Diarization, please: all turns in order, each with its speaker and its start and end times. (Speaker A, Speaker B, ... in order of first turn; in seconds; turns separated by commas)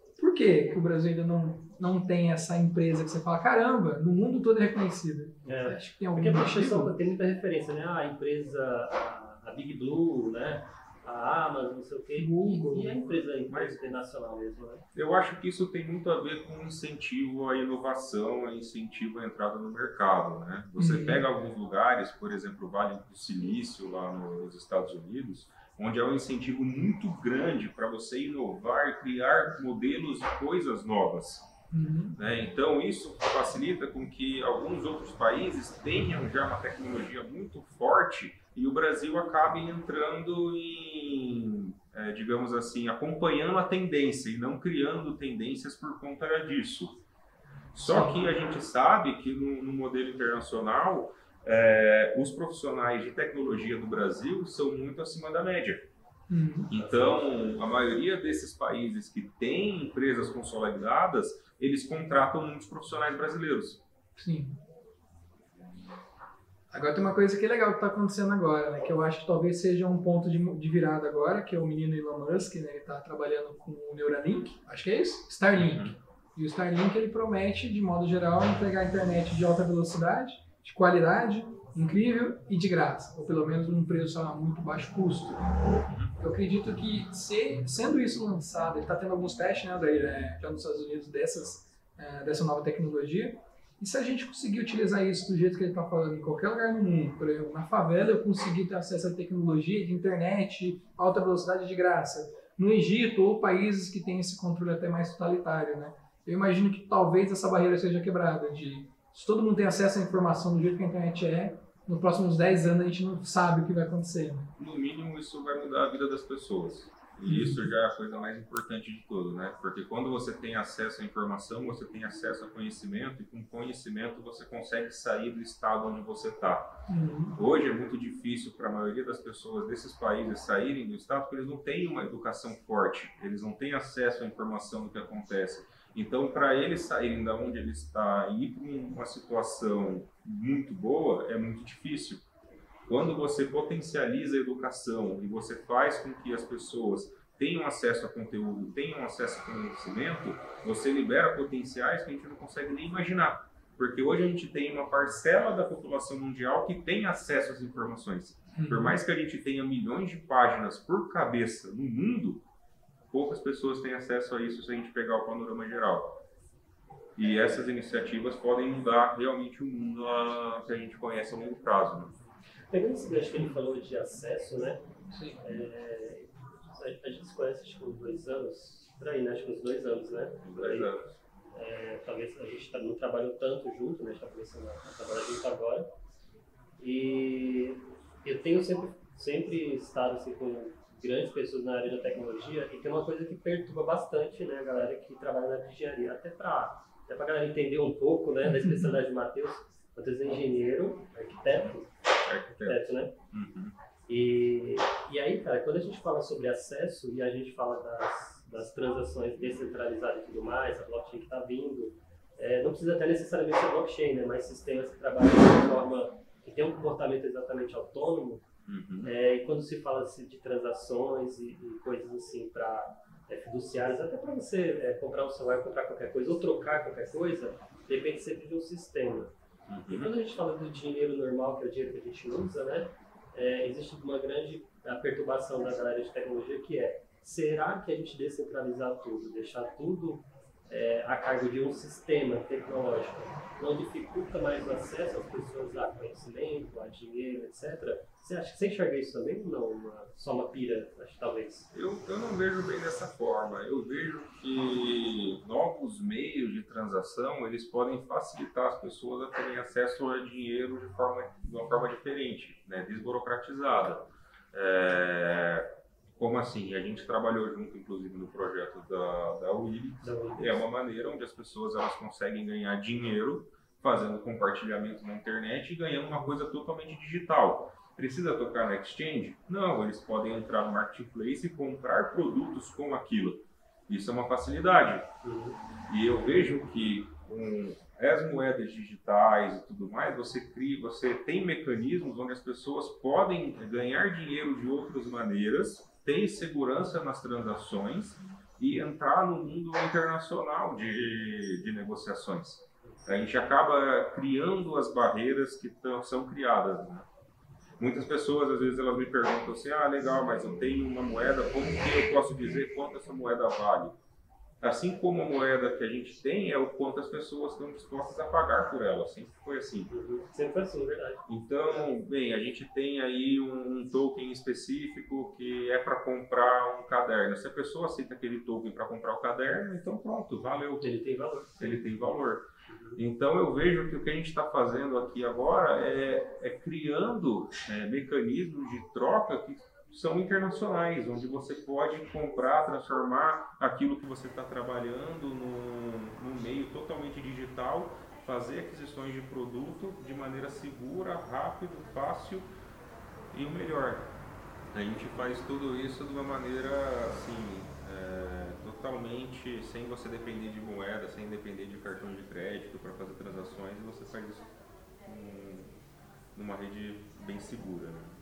Speaker A: 0.2-6.9, Speaker B: 5.5-14.9, Speaker A: 12.2-12.9, Speaker C: 13.5-13.8, Speaker C: 14.9-31.5, Speaker A: 20.8-21.3, Speaker A: 31.7-32.2, Speaker C: 32.2-47.0, Speaker C: 47.7-55.9, Speaker A: 47.8-48.2, Speaker A: 56.3-56.7, Speaker C: 56.7-63.8, Speaker B: 56.7-57.5, Speaker A: 64.2-64.6, Speaker A: 66.7-85.4, Speaker C: 75.5-75.9, Speaker C: 85.9-86.1, Speaker A: 86.2-114.5, Speaker C: 114.6-126.8, Speaker A: 117.3-117.7, Speaker A: 126.9-127.4, Speaker C: 127.4-142.2, Speaker C: 142.9-162.4, Speaker A: 158.6-159.0, Speaker C: 163.1-166.2, Speaker C: 167.2-172.1, Speaker B: 172.7-174.8, Speaker A: 175.1-175.4, Speaker B: 175.4-180.9, Speaker C: 180.4-181.0, Speaker B: 181.5-185.9, Speaker B: 186.8-201.9, Speaker A: 198.5-198.9, Speaker C: 202.2-203.7, Speaker B: 202.5-203.1, Speaker B: 204.1-218.4, Speaker C: 218.7-219.1, Speaker B: 219.0-229.3, Speaker C: 229.7-230.1, Speaker B: 229.9-251.7, Speaker C: 251.7-264.0, Speaker B: 263.8-264.0, Speaker C: 264.5-265.6, Speaker C: 266.2-285.1, Speaker B: 270.0-270.6, Speaker B: 285.2-285.6, Speaker C: 285.9-307.1, Speaker C: 307.8-313.9, Speaker C: 314.6-319.9, Speaker B: 319.9-321.2, Speaker C: 321.3-330.9, Speaker B: 330.8-331.8, Speaker C: 331.6-332.4, Speaker B: 332.7-333.0, Speaker C: 333.0-352.5, Speaker C: 353.3-354.1, Speaker C: 354.7-364.5, Speaker C: 365.1-365.7, Speaker C: 366.4-368.1